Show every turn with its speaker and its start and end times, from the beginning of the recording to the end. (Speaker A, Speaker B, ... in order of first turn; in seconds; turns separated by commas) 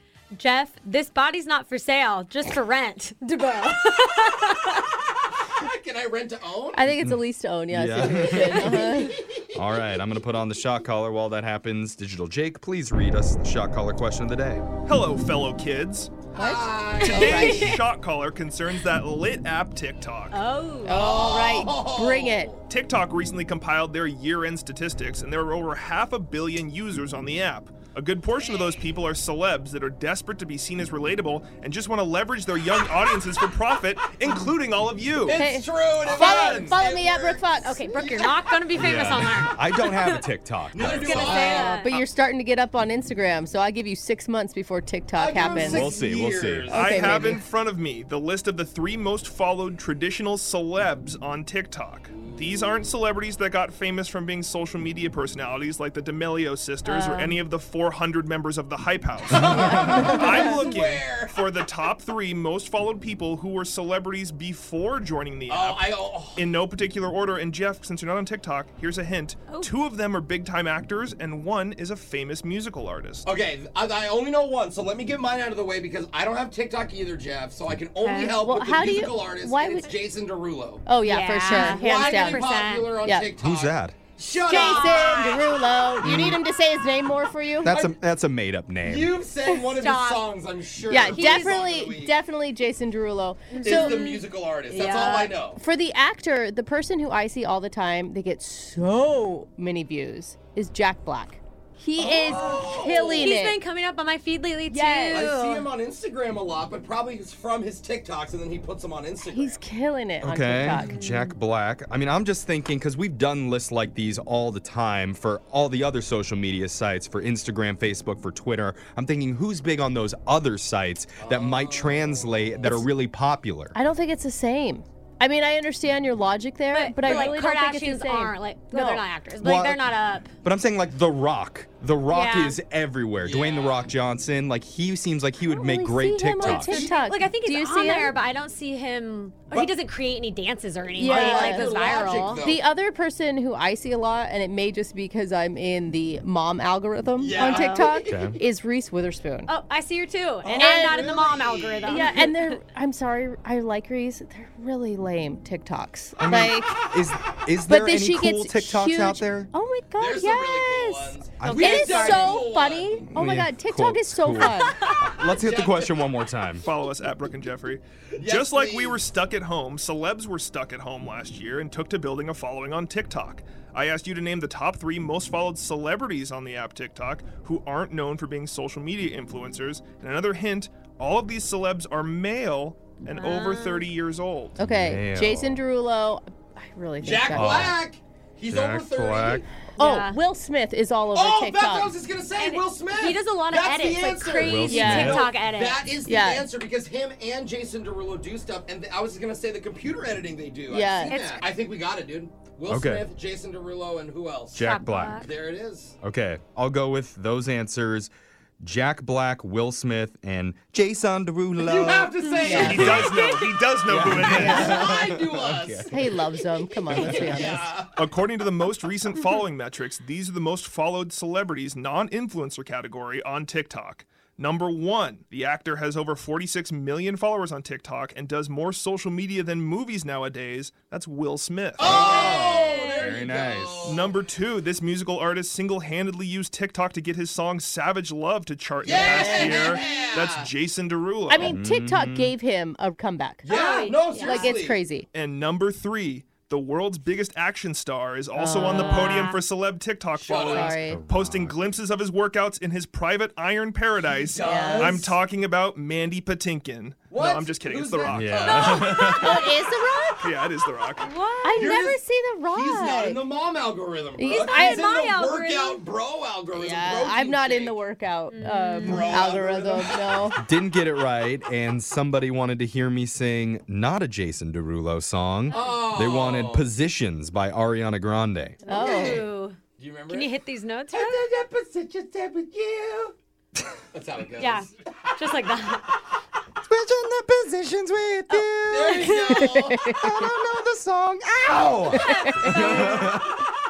Speaker A: 0.3-4.8, Speaker B: 5.4-6.8, Speaker C: 6.7-9.2, Speaker D: 7.0-8.9, Speaker B: 8.0-9.4, Speaker D: 9.5-14.7, Speaker E: 14.8-16.3, Speaker B: 16.3-17.8, Speaker C: 16.3-17.8, Speaker E: 17.0-20.4, Speaker A: 17.2-17.8, Speaker A: 20.3-21.0, Speaker C: 20.9-22.5, Speaker B: 20.9-22.6, Speaker E: 22.7-35.4, Speaker B: 28.4-28.8, Speaker B: 35.2-38.4, Speaker C: 35.3-38.0, Speaker E: 36.0-36.8, Speaker A: 37.6-40.2, Speaker D: 38.8-41.5, Speaker B: 40.7-41.8, Speaker A: 40.8-41.9, Speaker C: 41.0-45.9, Speaker B: 45.1-47.4, Speaker D: 45.5-46.8, Speaker E: 46.7-73.3, Speaker C: 46.7-47.4, Speaker A: 56.9-57.4, Speaker B: 59.3-61.4, Speaker B: 65.5-66.5, Speaker B: 73.2-80.9, Speaker A: 78.0-78.4, Speaker C: 78.4-79.9, Speaker C: 80.9-82.4, Speaker A: 81.0-83.0, Speaker B: 81.5-85.5, Speaker C: 83.0-83.3, Speaker D: 83.4-84.0, Speaker A: 84.5-85.4, Speaker C: 84.5-87.7, Speaker D: 86.0-86.4, Speaker D: 87.6-89.2, Speaker B: 87.7-88.0, Speaker B: 88.8-92.2, Speaker A: 89.6-90.3, Speaker C: 90.9-94.0, Speaker A: 91.1-91.5, Speaker A: 93.5-95.3, Speaker B: 93.6-95.6, Speaker C: 95.6-103.6, Speaker B: 102.0-103.3, Speaker A: 102.2-105.7, Speaker C: 104.7-105.3, Speaker B: 105.1-109.6, Speaker C: 109.3-111.0, Speaker D: 110.2-123.8, Speaker A: 110.7-111.4, Speaker B: 121.2-122.5, Speaker C: 123.7-129.1, Speaker A: 126.7-130.3, Speaker B: 127.0-127.4, Speaker D: 129.4-129.8, Speaker D: 130.4-136.9, Speaker A: 132.1-132.6, Speaker B: 133.2-133.9, Speaker C: 135.4-138.2, Speaker B: 136.4-137.0, Speaker A: 136.7-142.4, Speaker C: 141.0-149.5, Speaker B: 141.0-142.6, Speaker B: 147.2-148.4, Speaker A: 147.3-147.9, Speaker D: 148.1-148.4, Speaker A: 149.5-152.6, Speaker B: 150.4-152.3, Speaker C: 150.6-151.0, Speaker C: 151.9-156.8, Speaker D: 156.2-159.5, Speaker C: 157.7-164.8, Speaker B: 160.0-163.1, Speaker D: 161.4-162.4, Speaker A: 161.9-162.2, Speaker D: 163.1-166.7, Speaker B: 165.2-166.2, Speaker E: 166.6-184.6, Speaker B: 168.2-169.0, Speaker A: 183.1-183.9, Speaker D: 184.6-185.6, Speaker C: 184.6-187.8, Speaker B: 187.0-189.5, Speaker D: 187.3-187.8, Speaker D: 188.5-189.4, Speaker A: 189.8-190.2, Speaker C: 189.8-192.0, Speaker B: 191.1-206.0, Speaker A: 192.4-195.8, Speaker D: 194.4-195.2, Speaker C: 194.7-195.2, Speaker C: 196.1-196.5, Speaker C: 200.7-201.2, Speaker A: 201.1-201.4, Speaker D: 202.7-203.1, Speaker D: 204.6-205.3, Speaker A: 204.6-205.3, Speaker D: 206.0-208.1, Speaker D: 208.6-213.2, Speaker B: 211.6-213.2, Speaker A: 212.3-212.6, Speaker C: 212.4-213.0, Speaker E: 212.5-214.6, Speaker D: 213.9-216.1, Speaker C: 214.2-214.9, Speaker B: 214.4-218.0, Speaker C: 215.9-217.7, Speaker D: 216.9-217.4, Speaker E: 218.0-232.0, Speaker B: 231.8-234.2, Speaker D: 231.8-234.0, Speaker A: 231.9-233.2, Speaker E: 233.8-241.6, Speaker C: 238.8-240.0, Speaker B: 238.8-240.5, Speaker C: 241.3-245.1, Speaker D: 241.4-242.3, Speaker B: 243.4-244.8, Speaker A: 243.5-244.5, Speaker E: 245.1-258.9, Speaker C: 248.4-249.1, Speaker A: 248.5-249.4, Speaker B: 250.2-250.7, Speaker C: 250.4-251.0, Speaker D: 250.8-251.6, Speaker B: 254.1-255.2, Speaker C: 254.4-255.1, Speaker B: 257.1-259.6, Speaker D: 258.1-259.5, Speaker C: 259.1-260.3, Speaker E: 260.2-261.1, Speaker A: 261.0-261.8, Speaker C: 261.4-263.3, Speaker B: 261.6-267.8, Speaker C: 264.2-264.9, Speaker A: 264.3-265.8, Speaker C: 266.5-270.4, Speaker A: 268.3-269.2, Speaker B: 268.8-270.2, Speaker D: 270.4-278.6, Speaker B: 275.5-276.7, Speaker A: 275.5-275.8, Speaker A: 278.6-281.3, Speaker B: 278.7-280.3, Speaker C: 278.7-279.2, Speaker B: 280.9-283.1, Speaker B: 283.9-284.7, Speaker A: 284.4-286.0, Speaker D: 286.6-293.4, Speaker B: 288.6-289.8, Speaker C: 289.1-290.3, Speaker A: 291.9-293.2, Speaker C: 292.0-292.9, Speaker B: 292.6-293.2